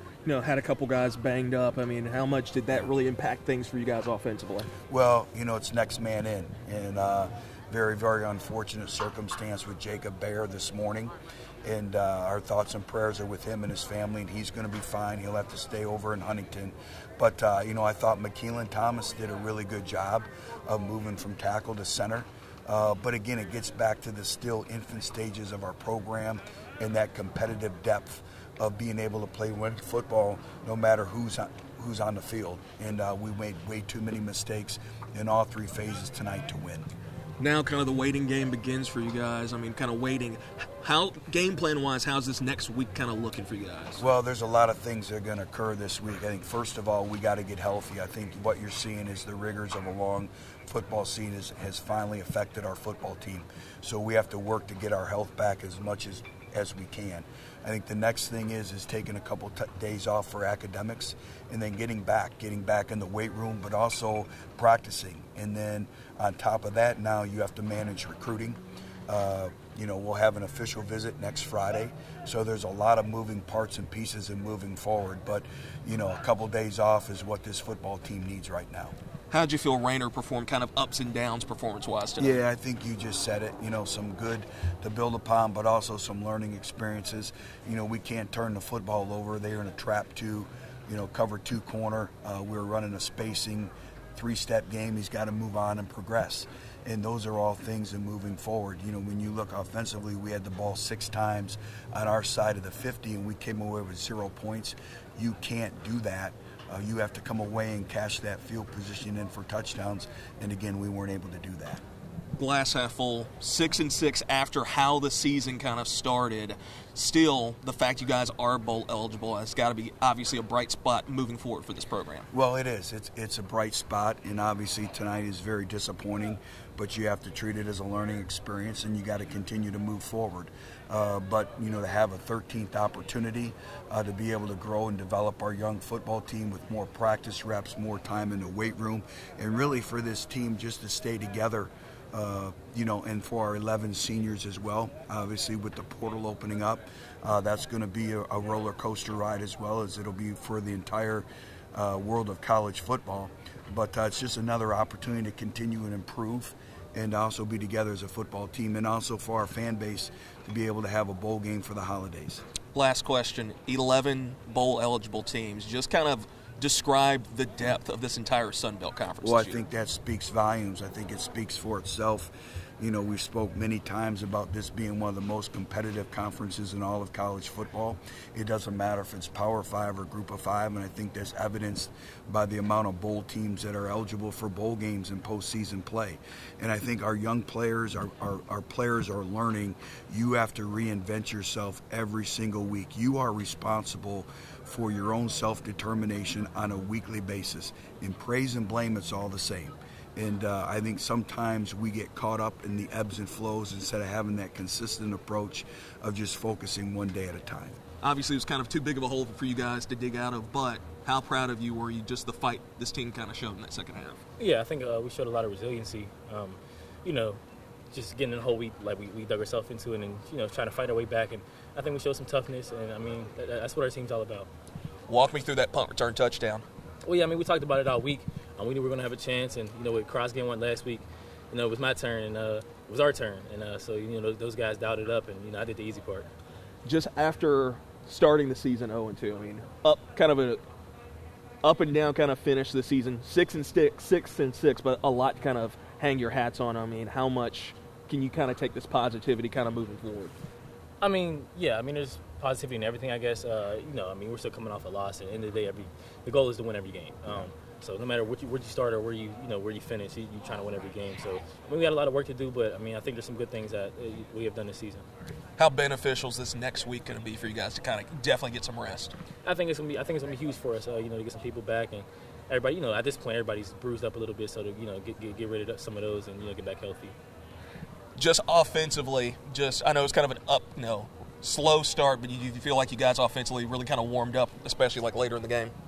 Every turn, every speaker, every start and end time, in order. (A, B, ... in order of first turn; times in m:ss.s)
0:00.2-0:04.7 A
0:04.9-0:36.9 B
0:37.4-0:44.0 A
0:44.0-1:19.0 B
1:19.3-1:22.4 A
1:22.2-1:51.8 B
1:52.4-2:02.3 A
2:02.3-2:42.4 B
2:42.7-2:49.6 A
2:49.2-3:27.8 B
3:28.0-3:34.2 A
3:34.4-3:37.4 C
3:37.9-3:44.5 C
3:45.1-3:46.6 A
3:47.0-3:56.3 C
3:56.8-4:00.6 A
4:01.6-4:10.4 A
4:11.0-4:25.1 C
4:25.6-4:29.2 A
4:29.4-4:37.2 C
4:38.2-4:45.7 A